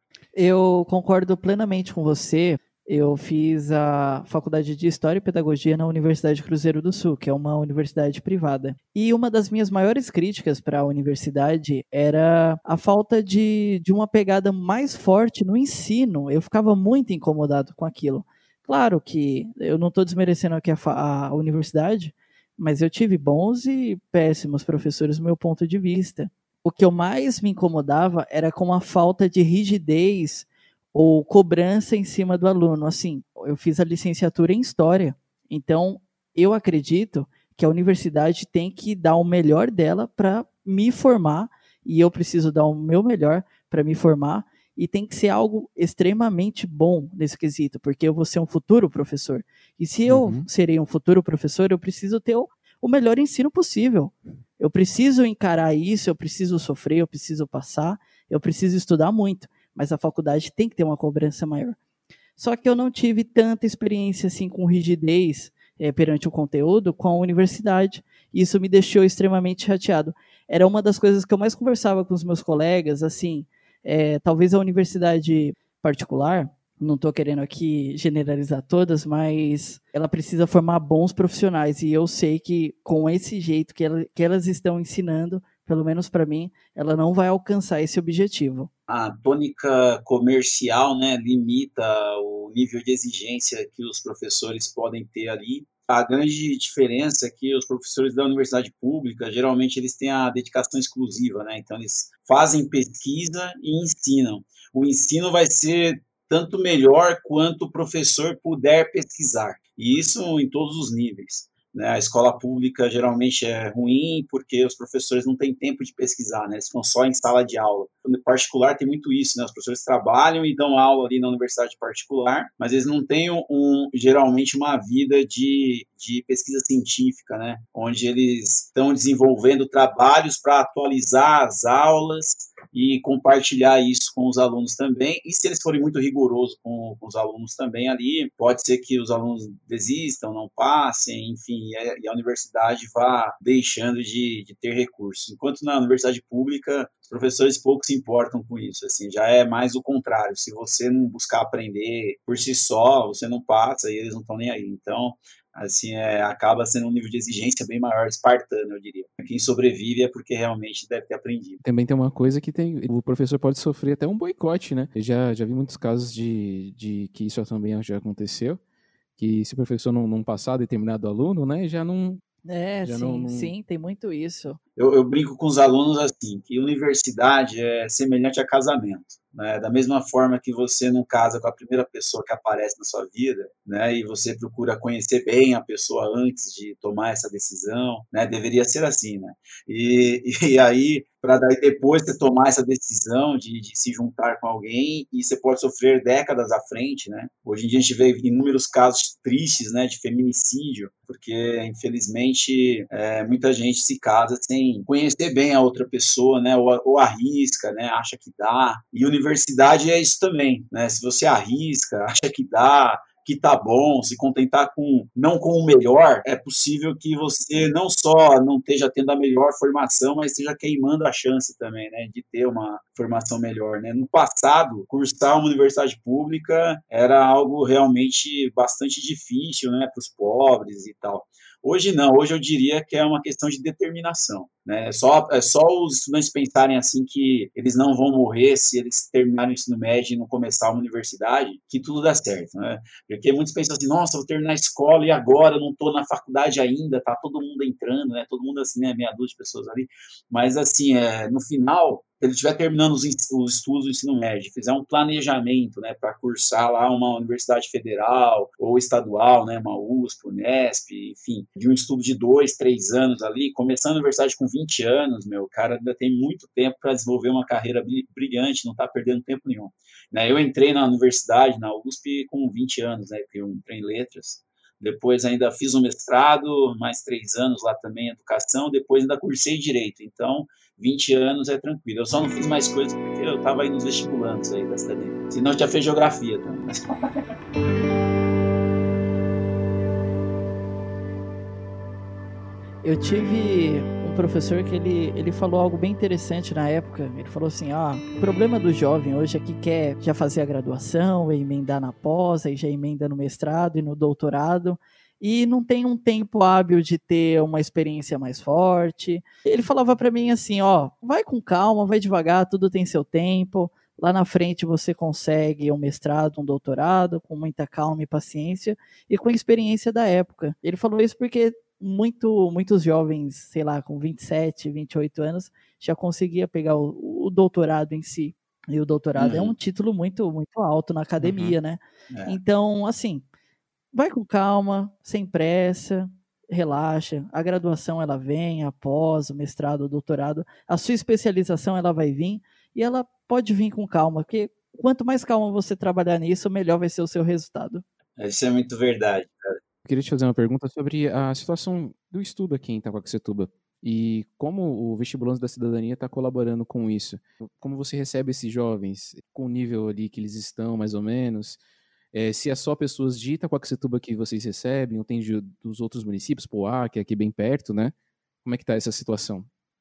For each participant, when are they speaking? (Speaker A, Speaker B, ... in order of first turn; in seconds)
Speaker A: 0.3-61.8, 62.4-88.7, 172.5-174.6, 292.8-333.2, 333.9-347.8
Speaker B: 50.1-50.5, 161.6-168.6, 169.2-172.2, 172.8-173.5, 331.2-331.6, 349.9-361.6, 362.1-369.5
Speaker C: 88.9-161.6, 174.8-287.2, 329.2-329.5, 332.1-332.4, 348.2-349.6